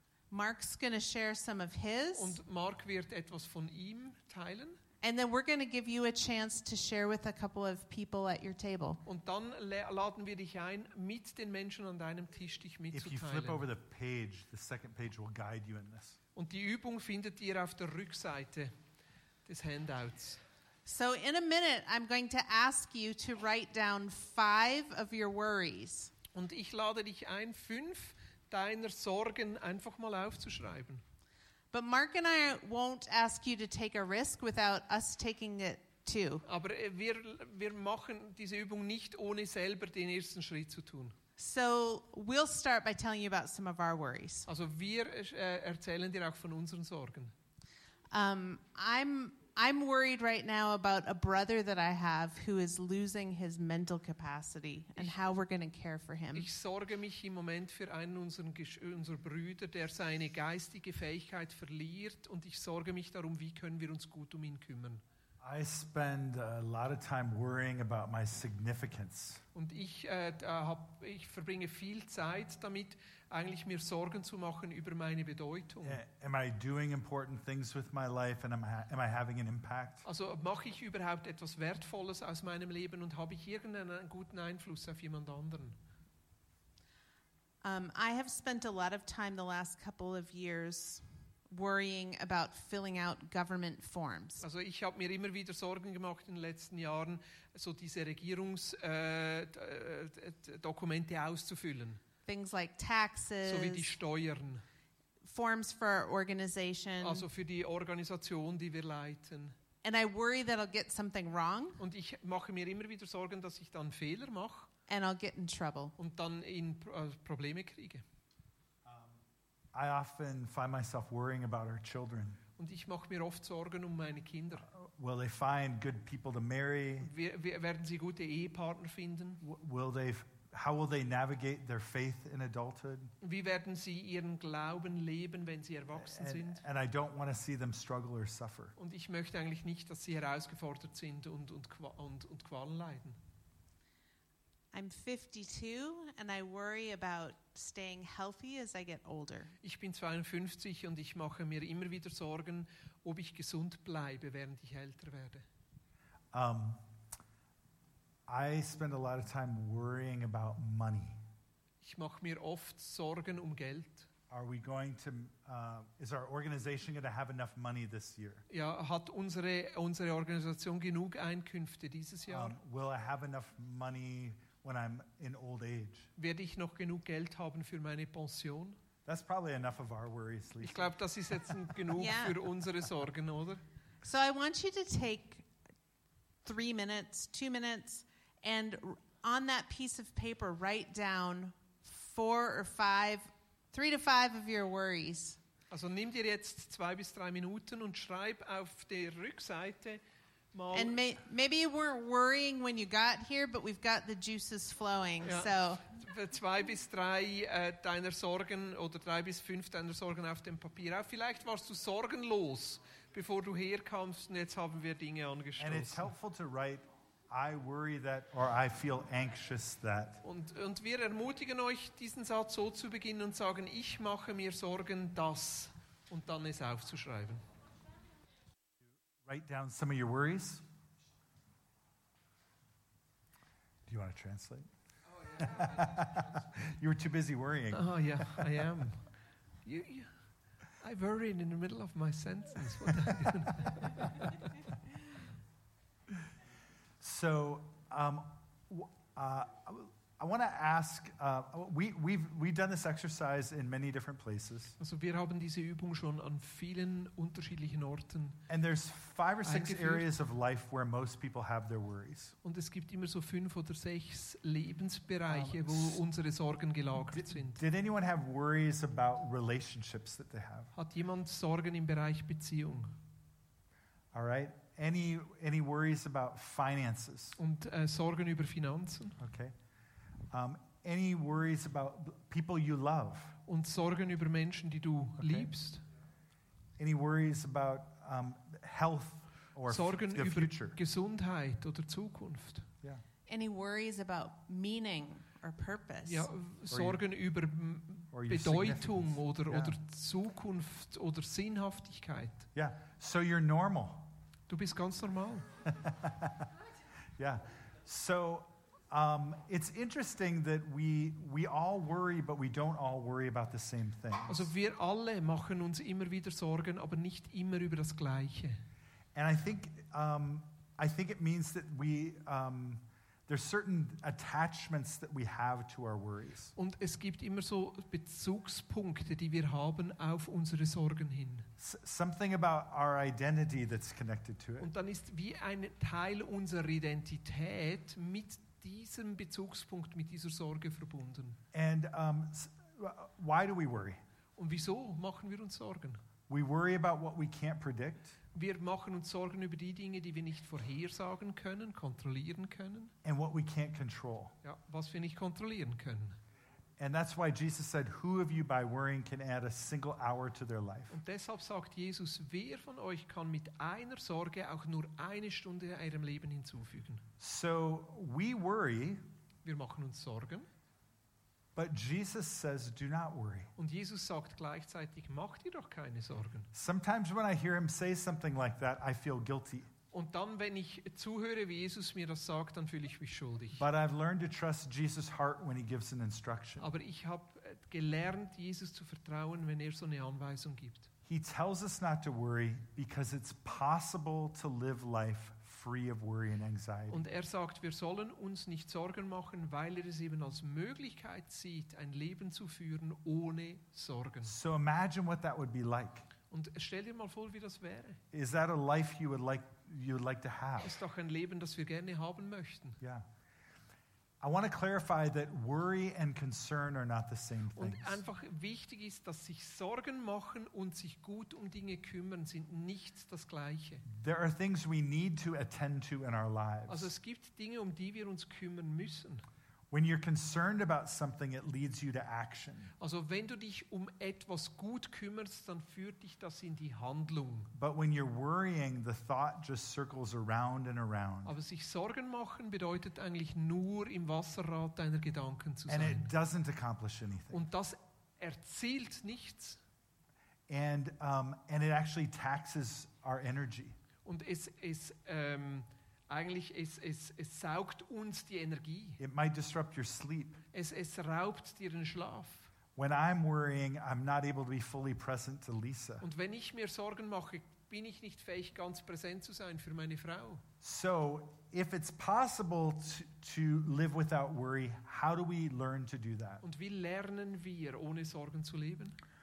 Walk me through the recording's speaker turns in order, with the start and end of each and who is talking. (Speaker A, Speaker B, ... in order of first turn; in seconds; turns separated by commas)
Speaker A: 0.3-2.4, Speaker B: 2.2-4.8, Speaker A: 5.0-9.0, Speaker B: 9.0-13.7, Speaker C: 12.9-16.2, Speaker B: 16.4-18.7, Speaker B: 19.5-20.4, Speaker A: 20.9-26.1, Speaker B: 26.3-31.0, Speaker A: 31.7-36.5, Speaker B: 36.5-41.2, Speaker A: 41.4-44.5, Speaker B: 44.5-47.3, Speaker A: 48.1-56.5, Speaker B: 56.4-65.0, Speaker C: 65.4-69.4, Speaker B: 69.5-76.0, Speaker C: 75.8-80.0, Speaker B: 80.0-85.8, Speaker A: 87.6-94.4, Speaker B: 94.4-102.0, Speaker A: 102.3-104.0, Speaker B: 103.5-104.6, Speaker A: 105.2-107.3, Speaker B: 107.0-109.6, Speaker A: 109.8-111.8, Speaker B: 111.8-114.7, Speaker A: 114.9-116.0, Speaker B: 116.0-118.0, Speaker C: 118.8-119.2, Speaker C: 119.7-122.4, Speaker B: 122.6-124.7, Speaker C: 124.7-127.1, Speaker B: 127.0-129.4, Speaker C: 129.4-133.1, Speaker B: 133.2-136.6, Speaker C: 135.9-138.8, Speaker B: 138.8-143.2, Speaker A: 144.7-149.5, Speaker B: 149.6-155.4, Speaker C: 156.3-156.8, Speaker C: 158.3-161.2, Speaker B: 161.8-164.1, Speaker C: 164.3-168.4, Speaker B: 168.5-172.6, Speaker C: 172.3-176.1, Speaker B: 176.2-178.8, Speaker C: 179.1-180.9, Speaker B: 180.6-183.6, Speaker A: 182.0-182.4, Speaker A: 184.0-185.5, Speaker A: 186.4-195.4, Speaker B: 195.7-200.0, Speaker B: 200.5-201.0, Speaker A: 200.7-205.8, Speaker B: 205.2-216.1, Speaker C: 215.6-220.2, Speaker B: 220.2-227.4, Speaker C: 229.2-230.6, Speaker C: 233.9-234.7, Speaker C: 235.3-238.5, Speaker B: 237.7-239.1, Speaker B: 239.7-240.2, Speaker B: 240.8-244.5, Speaker C: 247.0-254.8, Speaker B: 254.8-258.4, Speaker C: 258.5-262.4, Speaker B: 259.4-260.1, Speaker B: 262.4-267.6, Speaker C: 265.3-266.0, Speaker C: 267.1-270.7, Speaker B: 270.8-273.0, Speaker C: 274.1-277.4, Speaker B: 277.4-279.2, Speaker C: 279.2-279.6, Speaker C: 280.3-283.4, Speaker B: 283.5-285.8, Speaker C: 285.2-285.5, Speaker C: 286.8-290.8, Speaker B: 289.7-292.7, Speaker A: 293.3-296.3, Speaker B: 296.1-302.5, Speaker C: 296.7-297.0, Speaker C: 298.1-299.8, Speaker C: 302.6-304.1, Speaker B: 304.5-305.5, Speaker C: 305.8-306.5, Speaker C: 307.2-314.5, Speaker B: 314.3-318.6, Speaker C: 319.1-326.5, Speaker B: 326.6-331.5, Speaker C: 331.6-334.7, Speaker B: 334.6-341.4, Speaker C: 341.5-344.0, Speaker B: 344.4-346.0, Speaker C: 346.3-348.2, Speaker B: 348.3-352.9, Speaker C: 353.0-354.4, Speaker B: 354.4-356.2, Speaker C: 356.8-361.0, Speaker B: 360.9-367.1, Speaker C: 367.2-369.0, Speaker B: 369.4-370.5, Speaker C: 371.6-373.5, Speaker B: 373.6-376.5, Speaker C: 376.5-379.7, Speaker B: 379.9-383.6, Speaker C: 383.6-386.7, Speaker B: 386.6-390.9, Speaker C: 391.1-397.1, Speaker B: 396.9-404.4, Speaker C: 404.2-406.1, Speaker B: 406.3-408.0, Speaker C: 408.1-410.8, Speaker B: 410.6-412.8, Speaker C: 412.8-413.1, Speaker C: 414.2-418.0, Speaker B: 417.6-423.9, Speaker C: 423.9-426.9, Speaker B: 426.7-429.3, Speaker C: 429.7-432.7, Speaker B: 432.8-437.5, Speaker C: 437.5-441.4, Speaker B: 441.3-446.1, Speaker C: 445.7-447.4, Speaker B: 447.3-449.6, Speaker C: 450.5-453.8, Speaker B: 454.1-459.0, Speaker C: 459.0-460.4, Speaker B: 460.5-462.5, Speaker C: 462.8-466.1, Speaker B: 466.0-470.4, Speaker C: 470.6-476.4, Speaker B: 476.4-479.0